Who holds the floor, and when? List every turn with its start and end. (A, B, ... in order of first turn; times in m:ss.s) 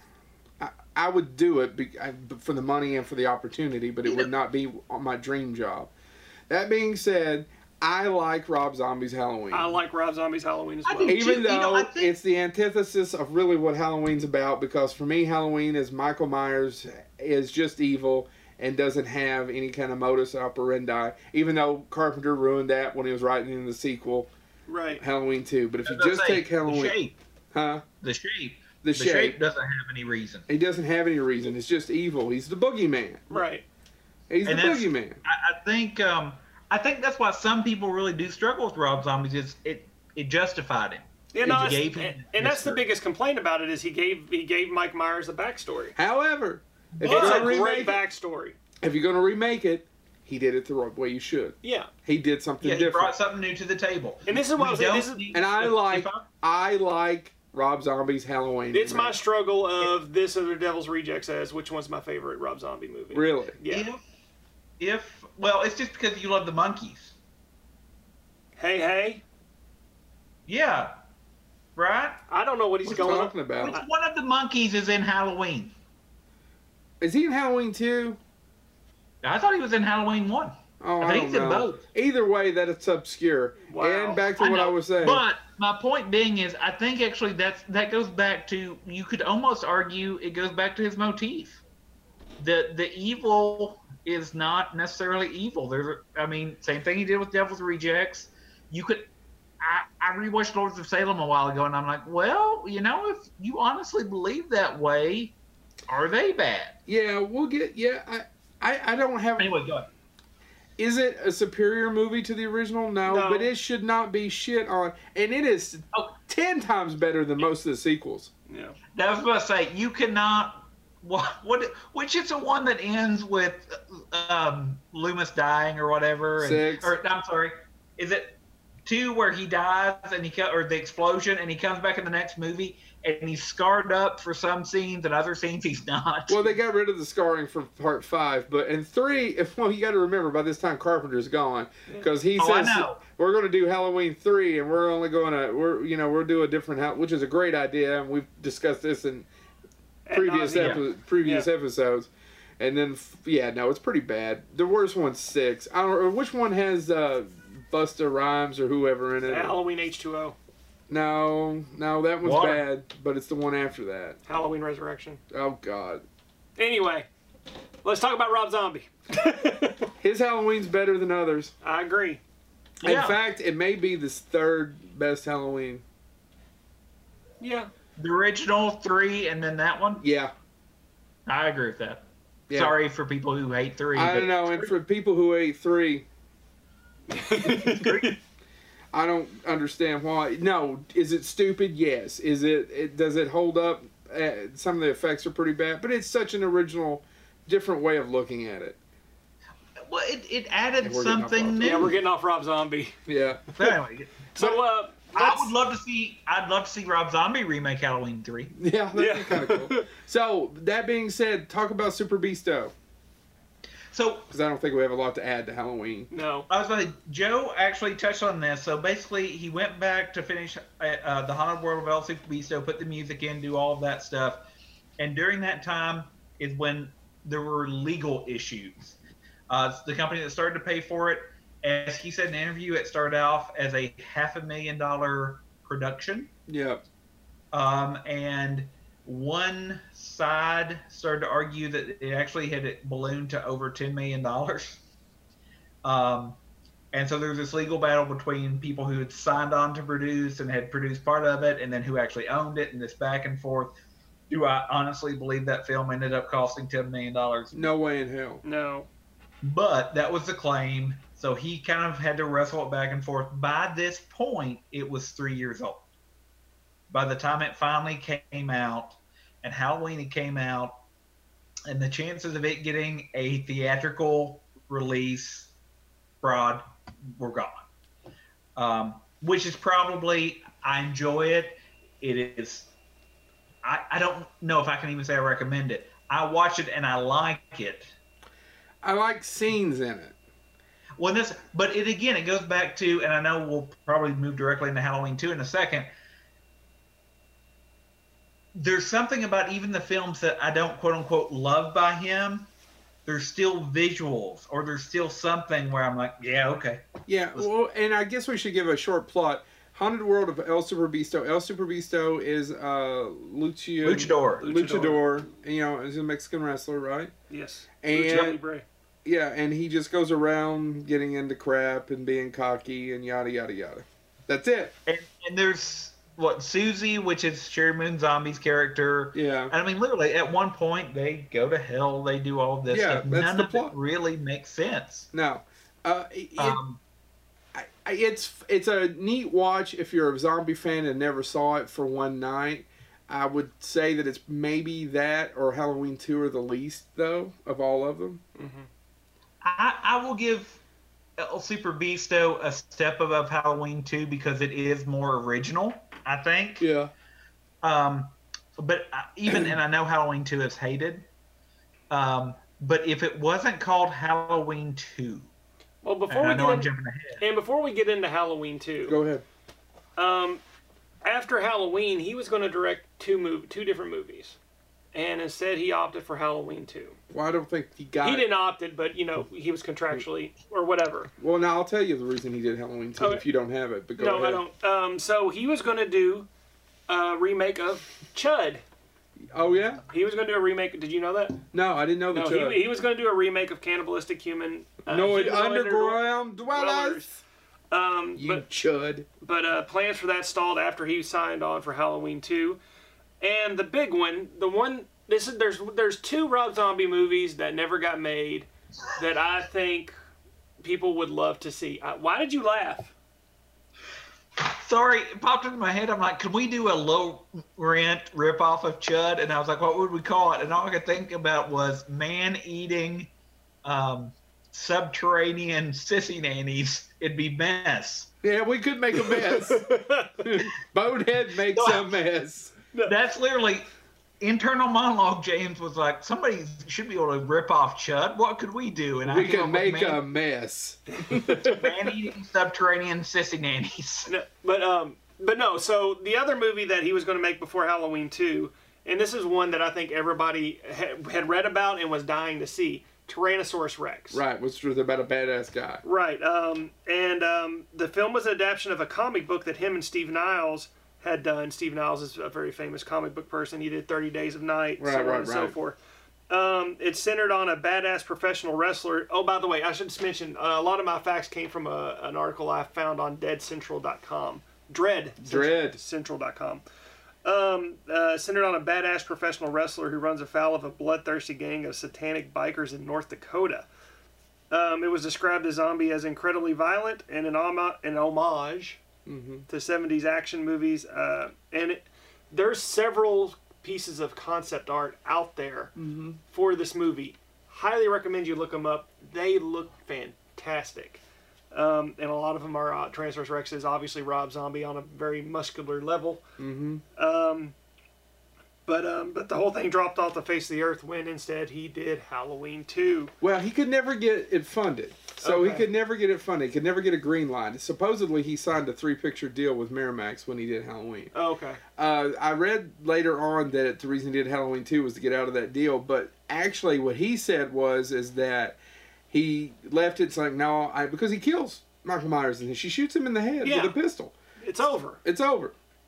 0:00.6-0:05.9 A
0:04.0-0:04.3 B
0:06.5-0:09.7 A
0:09.5-0:11.2 C
0:10.9-0:12.1 B
0:11.1-0:24.3 A
0:24.7-0:25.0 C
0:24.9-0:27.0 A
0:25.8-0:27.2 B
0:27.5-0:27.8 A
0:28.0-0:30.5 B
0:28.8-0:29.4 A
0:30.5-0:33.4 A
0:33.3-0:33.6 C
0:34.3-0:35.2 A
0:34.4-0:42.8 B
0:41.3-0:46.0 C
0:46.0-0:48.0 A
0:47.0-0:47.6 B
0:47.0-0:48.6 C
0:48.8-0:53.1 A
0:51.6-0:51.9 C
0:52.6-0:56.2 B
0:54.3-0:55.3 C
0:55.3-0:59.2 A
0:58.7-1:03.9 C
1:03.1-1:03.6 A
1:03.7-1:04.0 B
1:04.8-1:07.1 B
1:08.6-1:09.2 C
1:10.5-1:10.9 B
1:11.8-1:12.2 B
1:12.3-1:13.8 C
1:12.9-1:15.7 B
1:13.0-1:13.8 A
1:17.0-1:18.2 A
1:19.2-1:21.8 B
1:20.8-1:25.2 A
1:23.7-1:24.3 C
1:24.4-1:31.6 B
1:32.4-1:39.1 B
1:39.6-1:45.4 B
1:45.9-1:46.8 B
1:46.9-1:49.5 A
1:49.4-1:49.9 B
1:50.8-1:58.3 A
1:53.0-1:53.5 C
1:58.5-1:58.8 C
1:59.0-2:16.5 B
2:06.4-2:06.9 A
2:16.3-2:29.3 A
2:22.4-2:23.0 B
2:30.0-2:31.5 C
2:30.1-2:39.6 A
2:30.6-2:30.8 B
2:39.2-2:40.4 C
2:40.9-2:44.2 A
2:42.2-2:42.6 B
2:44.3-2:45.2 C
2:45.3-2:46.0 A
2:46.6-2:47.1 C
2:47.8-2:49.9 C
2:50.0-2:51.5 A
2:51.6-2:52.2 C
2:52.8-2:53.2 B
2:52.8-2:55.8 A
2:57.4-2:57.7 C
2:58.0-3:00.0 B
3:00.0-3:00.3 A
3:01.3-3:04.7 B
3:02.5-3:02.8 A
3:03.9-3:06.1 A
3:07.1-3:08.2 C
3:07.5-3:08.1 B
3:08.9-3:18.8 A
3:19.8-3:21.9 B
3:20.8-3:21.9 A
3:21.6-3:23.0 C
3:23.1-3:23.4 A
3:23.6-3:24.2 B
3:24.4-3:25.5 C
3:25.1-3:28.5 B
3:28.5-3:32.7 A
3:28.9-3:29.9 C
3:33.9-3:34.3 B
3:34.3-3:36.1 A
3:36.1-3:36.5 C
3:36.5-3:44.4 B
3:45.0-3:49.0 B
3:49.5-3:56.3 B
3:56.5-3:56.8 A
3:57.5-4:04.8 B
4:05.8-4:06.4 B
4:06.9-4:13.7 B
4:14.3-4:17.6 B
4:17.5-4:18.4 A
4:18.4-4:18.9 C
4:19.4-4:25.9 B
4:26.9-4:30.7 B
4:31.7-4:35.5 B
4:36.2-4:36.6 B
4:37.2-4:37.6 B
4:38.6-4:42.7 B
4:43.6-4:47.9 B
4:48.8-4:50.2 A
4:51.0-4:55.9 B
4:58.5-5:02.5 B
5:03.0-5:07.5 B
5:07.1-5:17.1 A
5:13.8-5:14.4 B
5:14.4-5:15.1 C
5:17.3-5:18.6 C
5:17.8-5:18.4 A
5:19.0-5:24.7 A
5:24.9-5:35.1 B
5:29.1-5:29.5 A
5:32.7-5:33.7 A
5:35.1-5:36.6 A
5:36.4-5:36.8 B
5:37.5-5:48.2 A
5:48.4-5:48.7 C
5:49.4-5:50.6 B
5:51.2-5:56.6 B
5:56.6-5:56.9 A
5:57.6-6:01.0 B
6:01.9-6:05.3 B
6:05.8-6:09.0 C
6:06.1-6:07.2 B
6:08.9-6:09.2 A
6:10.0-6:10.4 C
6:11.0-6:14.4 C
6:14.9-6:17.0 C
6:17.1-6:18.3 A
6:18.0-6:21.1 C
6:21.2-6:24.4 A
6:23.0-6:23.2 C
6:24.0-6:26.3 C
6:26.9-6:28.6 C
6:29.2-6:29.8 A
6:29.9-6:31.4 C
6:31.5-6:32.6 A
6:32.1-6:37.0 C
6:34.9-6:37.2 A
6:37.7-6:38.4 C
6:38.2-6:39.1 A
6:39.2-6:42.6 C
6:43.2-6:49.9 C
6:50.6-6:52.9 C
6:54.4-7:03.1 B
7:03.6-7:08.1 B
7:08.2-7:09.6 A
7:09.0-7:10.4 C
7:10.2-7:12.6 A
7:11.5-7:12.0 B
7:12.9-7:13.7 B
7:14.2-7:20.0 B
7:19.0-7:21.6 A
7:20.9-7:21.7 C
7:21.5-7:24.1 B
7:24.1-7:34.2 C
7:34.1-7:35.8 A
7:35.8-7:45.8 C
7:44.8-7:45.6 A
7:46.3-7:56.6 C
7:55.2-7:55.8 A
7:57.2-8:03.7 C
8:04.5-8:08.8 C
8:09.0-8:09.5 A
8:09.5-8:15.7 C
8:15.8-8:16.2 A
8:16.3-8:21.0 C
8:21.5-8:26.2 C
8:26.4-8:26.8 A
8:27.0-8:27.5 C
8:28.7-8:33.1 C
8:33.2-8:41.1 A
8:35.2-8:35.7 C
8:41.1-8:41.6 C
8:41.8-8:48.6 A
8:49.1-8:54.1 A
8:53.4-8:53.8 C
8:54.4-8:55.0 C
8:55.0-8:55.5 A